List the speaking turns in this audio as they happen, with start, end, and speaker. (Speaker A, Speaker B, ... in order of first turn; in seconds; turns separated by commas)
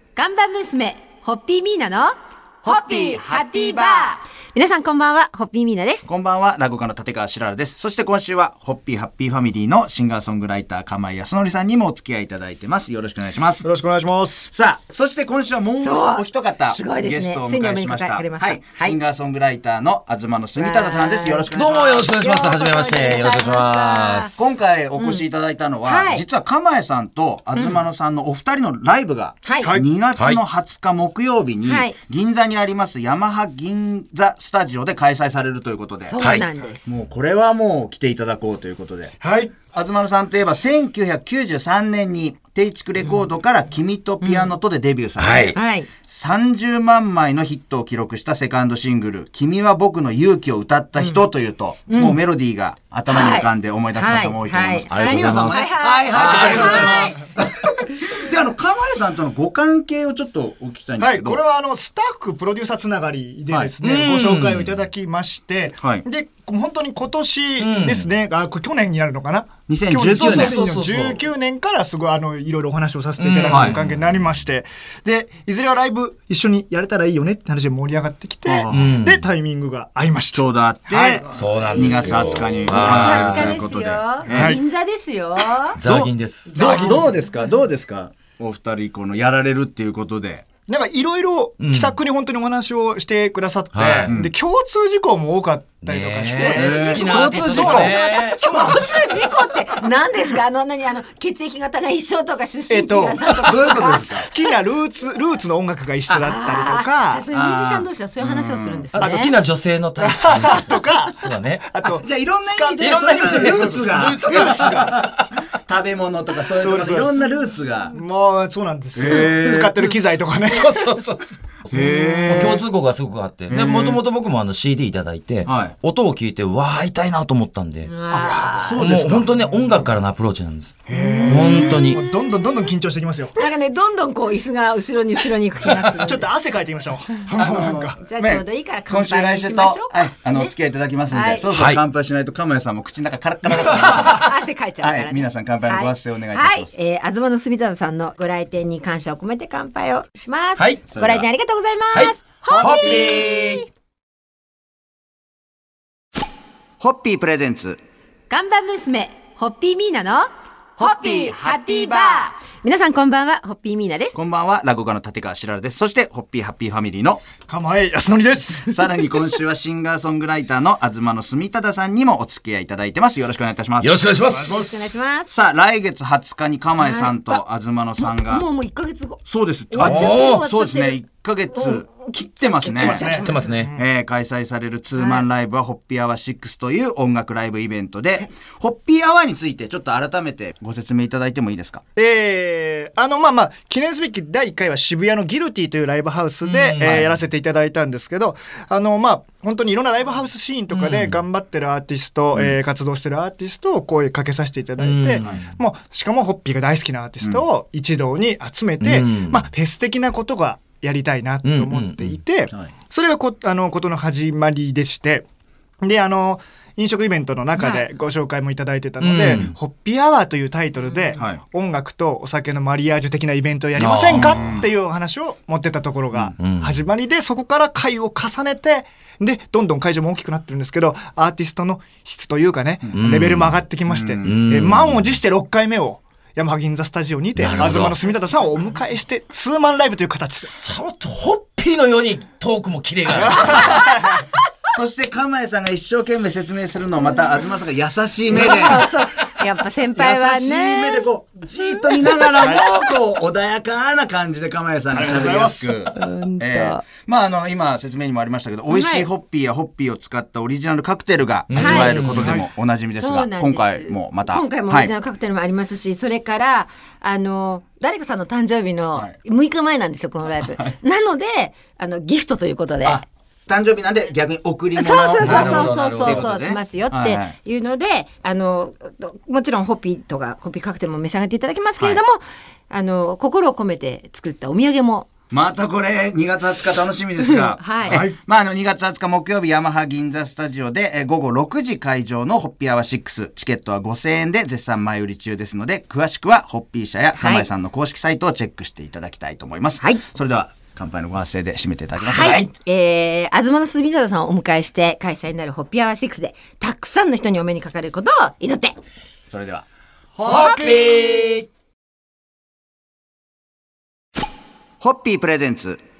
Speaker A: 0.1-6.1, Speaker B: 6.1-13.7, Speaker C: 13.6-14.5, Speaker B: 14.5-22.1, Speaker A: 15.8-18.9, Speaker A: 20.6-24.3, Speaker D: 21.5-24.4, Speaker B: 24.4-36.2, Speaker A: 24.9-25.2, Speaker A: 25.8-26.2, Speaker A: 27.5-27.8, Speaker A: 29.4-29.7, Speaker D: 30.1-30.4, Speaker A: 31.6-31.9, Speaker A: 36.0-36.9, Speaker D: 36.2-36.5, Speaker B: 36.8-39.2, Speaker C: 39.2-39.5, Speaker B: 39.7-61.4, Speaker A: 44.2-44.5, Speaker D: 45.2-45.5, Speaker A: 45.5-45.9, Speaker A: 51.9-52.2, Speaker A: 53.1-57.3, Speaker D: 54.9-57.1, Speaker C: 61.0-82.2, Speaker D: 63.8-64.8, Speaker D: 67.6-68.1, Speaker B: 69.7-70.6, Speaker D: 70.1-71.2, Speaker D: 73.2-74.4, Speaker B: 73.4-73.8, Speaker B: 78.4-79.0, Speaker D: 78.7-79.2, Speaker B: 80.3-84.6, Speaker D: 81.3-83.6, Speaker A: 82.6-85.8, Speaker C: 84.3-84.6, Speaker D: 85.8-86.6, Speaker B: 85.8-90.5, Speaker A: 86.6-87.0, Speaker C: 86.6-87.2, Speaker C: 90.7-99.1, Speaker D: 91.6-92.0, Speaker D: 93.7-94.2, Speaker D: 95.8-98.6, Speaker B: 96.3-97.9, Speaker A: 96.7-104.4, Speaker C: 102.7-107.2, Speaker B: 103.4-104.3, Speaker A: 106.2-109.3, Speaker B: 107.3-108.9, Speaker C: 109.0-109.4, Speaker D: 109.0-111.7, Speaker C: 110.0-114.9, Speaker B: 112.0-117.9, Speaker D: 112.8-115.0, Speaker C: 116.6-117.2, Speaker C: 117.9-120.7, Speaker B: 118.9-119.9, Speaker D: 120.5-127.9, Speaker B: 121.7-122.4, Speaker C: 121.7-122.6, Speaker B: 123.5-124.0, Speaker B: 125.4-125.8, Speaker A: 127.8-128.8, Speaker C: 128.1-128.6, Speaker B: 128.5-129.4, Speaker D: 128.8-132.0, Speaker C: 130.9-133.3, Speaker B: 131.3-131.8, Speaker A: 133.3-136.3, Speaker C: 136.0-138.0, Speaker B: 137.3-144.3, Speaker A: 138.0-140.5, Speaker A: 141.1-141.5, Speaker D: 141.5-141.8, Speaker A: 143.6-153.6, Speaker B: 144.8-146.7, Speaker B: 150.9-151.2, Speaker D: 151.9-153.7, Speaker B: 152.5-153.1, Speaker B: 156.8-157.8, Speaker A: 158.3-164.2, Speaker B: 164.1-167.2, Speaker C: 167.4-168.7, Speaker B: 168.7-174.0, Speaker D: 173.8-174.8, Speaker C: 174.3-174.8, Speaker A: 174.4-175.3, Speaker B: 175.3-178.4, Speaker A: 176.8-177.4, Speaker A: 178.0-181.0, Speaker B: 179.3-183.0, Speaker D: 179.8-180.5, Speaker A: 181.5-183.6, Speaker C: 182.7-183.8, Speaker D: 183.1-183.7, Speaker B: 183.8-191.8, Speaker A: 184.9-185.2, Speaker C: 191.9-215.2, Speaker D: 196.4-197.2, Speaker D: 200.7-201.2, Speaker D: 204.8-205.5, Speaker B: 205.2-205.5, Speaker D: 208.8-209.5, Speaker D: 211.4-212.2, Speaker C: 215.8-240.5, Speaker A: 217.6-217.9, Speaker D: 219.0-219.5, Speaker B: 219.2-219.5, Speaker A: 220.8-221.2, Speaker B: 221.2-221.4, Speaker D: 223.8-224.4, Speaker B: 224.0-224.7, Speaker B: 226.1-226.5, Speaker D: 226.4-226.8, Speaker D: 232.9-233.6, Speaker B: 233.9-234.5, Speaker D: 234.2-235.2, Speaker D: 237.3-238.0, Speaker D: 240.4-244.0, Speaker C: 243.1-244.2, Speaker B: 244.7-248.9, Speaker A: 248.3-251.0, Speaker B: 249.9-264.9, Speaker A: 251.6-252.5, Speaker C: 252.4-252.7, Speaker C: 254.9-255.8, Speaker A: 255.9-256.8, Speaker A: 258.7-259.1, Speaker D: 261.5-262.4, Speaker A: 261.5-261.9, Speaker C: 262.2-262.5, Speaker A: 262.9-273.0, Speaker B: 272.8-277.4, Speaker A: 274.7-285.1, Speaker D: 275.2-276.3, Speaker B: 285.3-302.4, Speaker A: 287.2-288.1, Speaker C: 287.9-288.1, Speaker A: 297.1-297.4, Speaker A: 302.0-308.7, Speaker D: 302.1-302.5, Speaker B: 309.3-309.6, Speaker D: 310.2-311.5, Speaker A: 310.2-311.1, Speaker B: 314.8-315.8